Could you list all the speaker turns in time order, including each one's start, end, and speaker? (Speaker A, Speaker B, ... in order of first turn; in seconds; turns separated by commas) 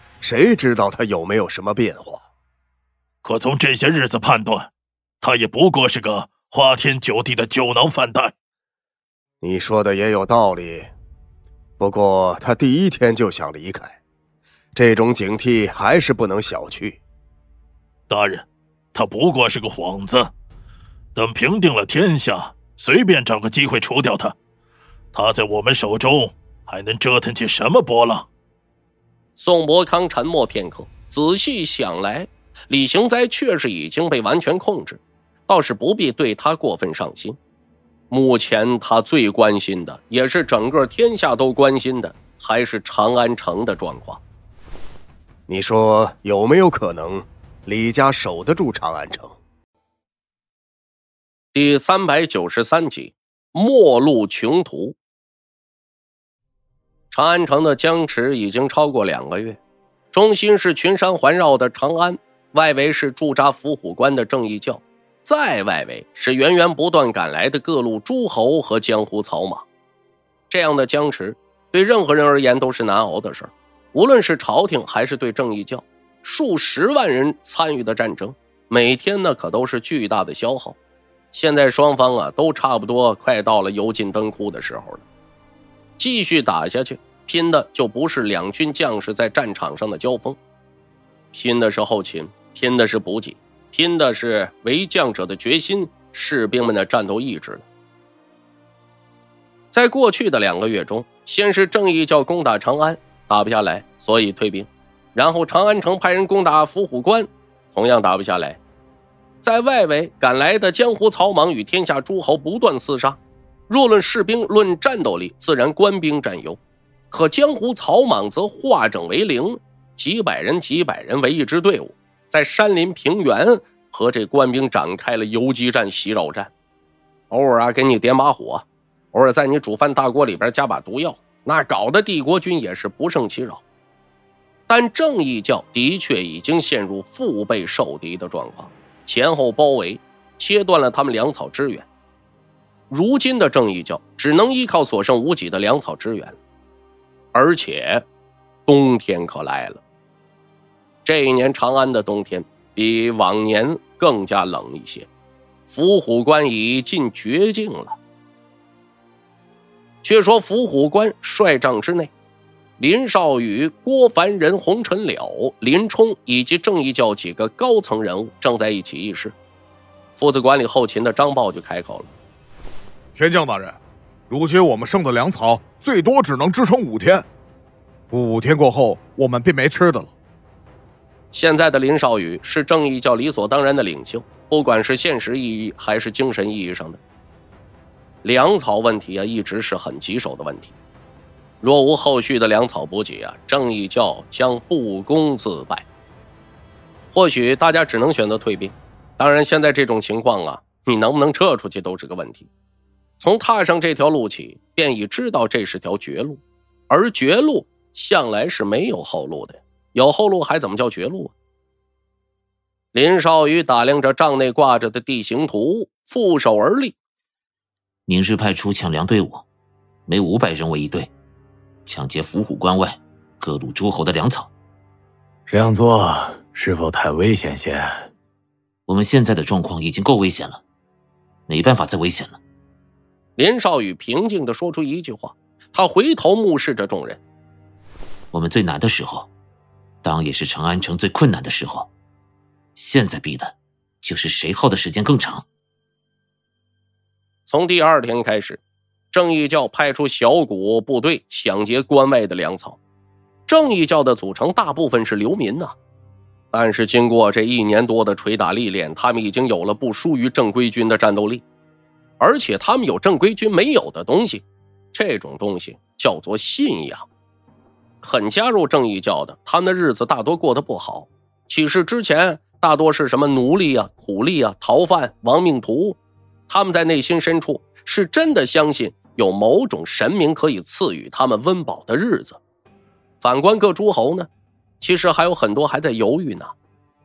Speaker A: 0.2-2.2, Speaker B: 3.2-4.7, Speaker B: 5.2-8.3, Speaker A: 9.4-10.9, Speaker A: 11.8-14.0, Speaker A: 14.8-17.0, Speaker B: 18.1-20.3, Speaker B: 21.1-24.4, Speaker B: 25.1-28.3, Speaker C: 29.4-37.4, Speaker C: 38.1-44.2, Speaker A: 45.5-49.4, Speaker C: 51.5-55.0, Speaker C: 57.1-59.6, Speaker C: 60.1-69.6, Speaker C: 70.5-80.8, Speaker C: 81.3-85.0, Speaker C: 86.0-90.4, Speaker C: 91.3-97.6, Speaker C: 99.7-108.6, Speaker C: 109.4-113.2, Speaker C: 113.7-116.6, Speaker C: 117.1-126.5, Speaker C: 127.3-133.6, Speaker C: 134.7-141.8, Speaker C: 142.9-146.4, Speaker C: 147.3-148.1, Speaker C: 148.7-149.8, Speaker C: 151.1-155.1, Speaker C: 155.7-158.0, Speaker C: 160.0-162.1, Speaker C: 162.8-169.3, Speaker C: 170.2-172.1, Speaker D: 173.2-173.8, Speaker D: 174.3-177.3, Speaker D: 178.1-180.1, Speaker C: 181.3-187.0, Speaker C: 188.2-190.7, Speaker C: 191.6-195.8, Speaker C: 197.1-202.5, Speaker C: 203.2-211.3, Speaker C: 212.9-216.9, Speaker E: 218.1-219.4, Speaker E: 220.1-221.1, Speaker E: 221.9-224.5, Speaker F: 225.5-228.1, Speaker E: 228.9-230.6, Speaker E: 231.5-232.4, Speaker C: 233.4-237.2, Speaker E: 238.3-239.3, Speaker E: 240.0-241.9, Speaker E: 242.8-245.5, Speaker C: 247.5-248.6, Speaker C: 249.1-252.8, Speaker C: 253.5-255.7, Speaker C: 256.5-261.4, Speaker C: 262.2-267.1, Speaker C: 268.0-276.0, Speaker C: 276.5-282.4, Speaker C: 283.2-284.3, Speaker C: 284.8-286.5